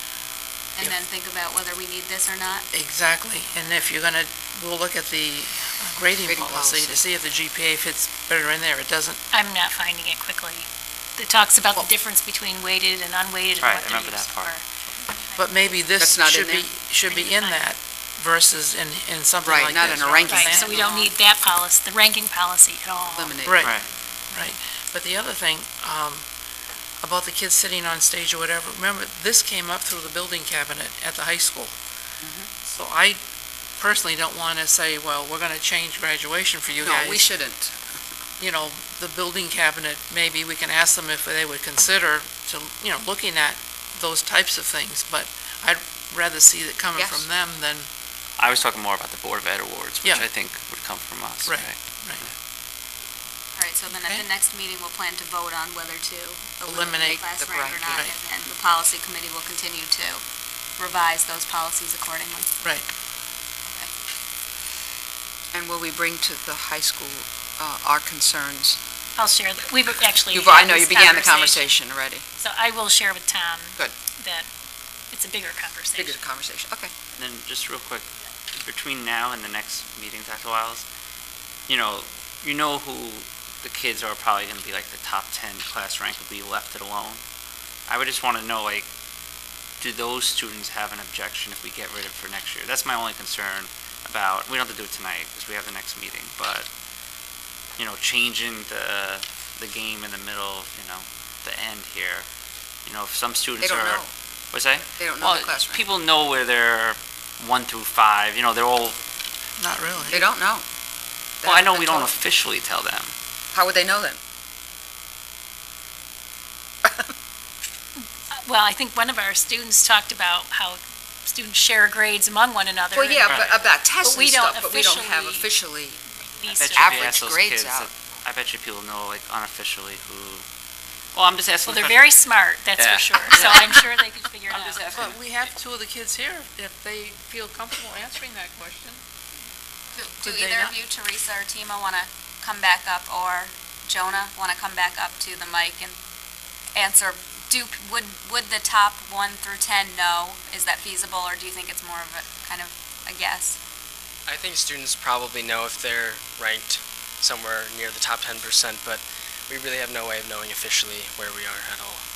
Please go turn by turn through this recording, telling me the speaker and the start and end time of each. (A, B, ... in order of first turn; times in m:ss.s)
0:00.8-0:02.7 A
0:02.7-0:09.2 B
0:06.2-0:07.0 C
0:09.3-0:15.9 D
0:13.6-0:14.6 E
0:15.4-0:20.8 B
0:16.0-0:16.7 C
0:17.1-0:17.7 D
0:19.4-0:20.9 C
0:20.2-0:23.4 D
0:20.8-0:21.2 A
0:23.1-0:23.7 C
0:23.4-0:23.8 B
0:23.6-0:23.9 E
0:24.3-0:26.3 B
0:27.0-0:31.8 B
0:32.2-0:32.5 C
0:32.6-0:33.2 B
0:33.8-0:37.3 B
0:36.8-0:38.0 C
0:38.4-0:47.9 B
0:47.0-0:47.3 C
0:48.4-0:52.3 E
0:51.4-0:52.2 B
0:53.6-1:00.2 A
0:53.9-0:54.3 B
0:56.7-0:58.0 C
0:56.7-0:57.2 B
1:00.8-1:02.6 A
1:03.6-1:03.9 A
1:05.5-1:08.8 C
1:09.2-1:11.8 D
1:10.3-1:12.2 C
1:12.4-1:14.5 D
1:15.1-1:16.2 D
1:15.9-1:16.9 C
1:17.1-1:20.9 E
1:21.7-1:27.2 E
1:27.9-1:28.9 E
1:29.8-1:36.7 E
1:37.8-1:42.3 E
1:42.9-1:49.0 E
1:43.6-1:44.1 C
1:45.0-1:45.9 C
1:49.6-1:50.3 B
1:50.1-1:50.6 C
1:51.4-1:52.1 C
1:51.4-1:53.1 E
1:53.5-1:54.2 C
1:56.8-1:57.1 C
1:58.0-2:03.5 D
2:02.9-2:06.0 C
2:03.3-2:03.6 E
2:04.0-2:05.5 D
2:06.2-2:07.0 D
2:06.5-2:10.4 E
2:06.7-2:07.9 C
2:11.1-2:12.1 E
2:11.7-2:15.1 D
2:12.8-2:13.9 E
2:14.5-2:19.0 B
2:14.6-2:15.2 A
2:19.9-2:26.0 A
2:20.2-2:20.8 B
2:26.8-2:33.6 A
2:34.3-2:42.0 F